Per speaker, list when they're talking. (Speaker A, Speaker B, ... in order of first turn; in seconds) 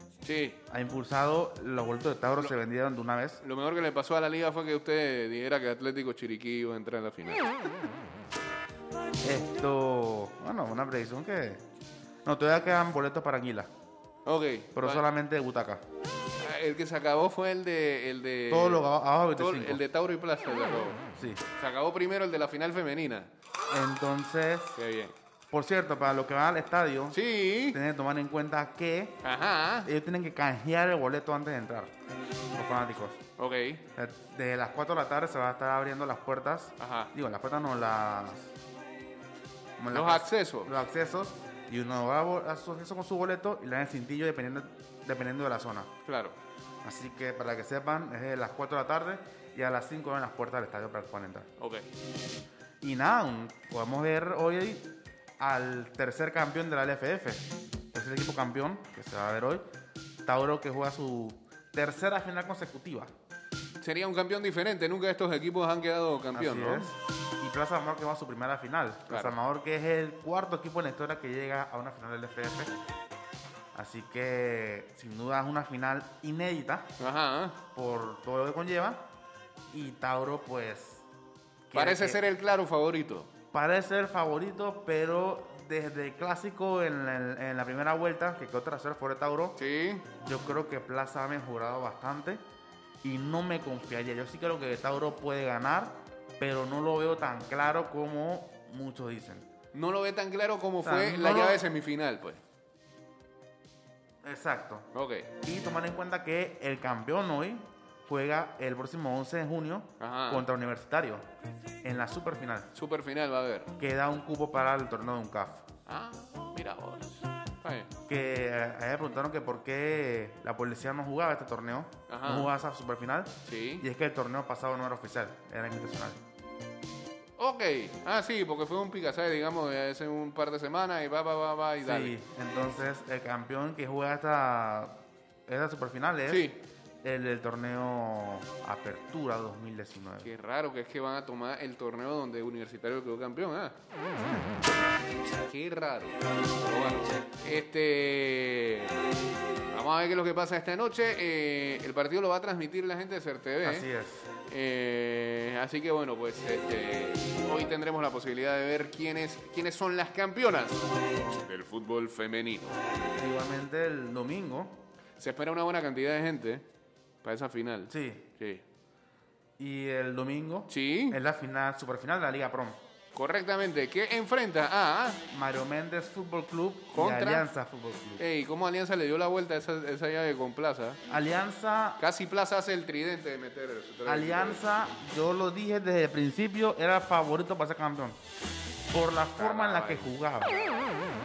Speaker A: 0.2-0.6, 3.4-7.7, 14.2-15.0, 16.4-23.3, 24.8-25.1, 27.1-27.8, 29.2-29.9, 33.4-33.8, 36.8-37.1, 39.9-40.8, 46.0-46.4, 51.6-51.9, 63.8-67.0, 69.1-69.3, 77.0-77.6, 81.7-83.3, 89.6-90.1, 99.7-102.4, 104.9-105.3, 110.0-110.5, 112.7-113.7, 115.9-117.9, 122.1-122.5, 123.5-123.8, 127.4-132.2, 136.3-136.6, 140.2-143.8, 145.4-149.0, 149.7-153.9, 154.5-160.8, 161.4-162.8, 165.2-166.7, 167.2-168.6, 170.7-171.2, 173.1-175.2, 176.9-177.5, 178.2-181.0, 182.0-184.7, 189.4-190.1
Speaker B: 0.7-3.4, 9.2-11.6, 12.2-13.7, 14.8-15.8, 18.5-19.8, 21.2-21.4, 23.7-24.8, 25.5-27.2, 27.7-29.2, 29.8-31.9, 32.5-33.2, 34.0-38.5, 39.8-45.9, 46.8-51.5, 52.8-59.6, 60.2-63.1, 66.3-72.7, 73.7-76.9, 77.7-79.1, 79.7-81.0, 81.7-82.2, 83.5-89.6, 90.2-92.4, 93.0-99.5, 100.8-101.7, 104.2-104.9, 105.4-111.3, 111.8-112.7, 113.8-115.7, 118.1-126.2, 131.8-136.5, 137.0-140.3, 144.3-144.7, 153.6-154.3, 163.2-164.8, 167.9-168.2, 169.6-172.8, 175.3-178.2, 181.1-182.0, 184.1-188.2, 188.9-190.9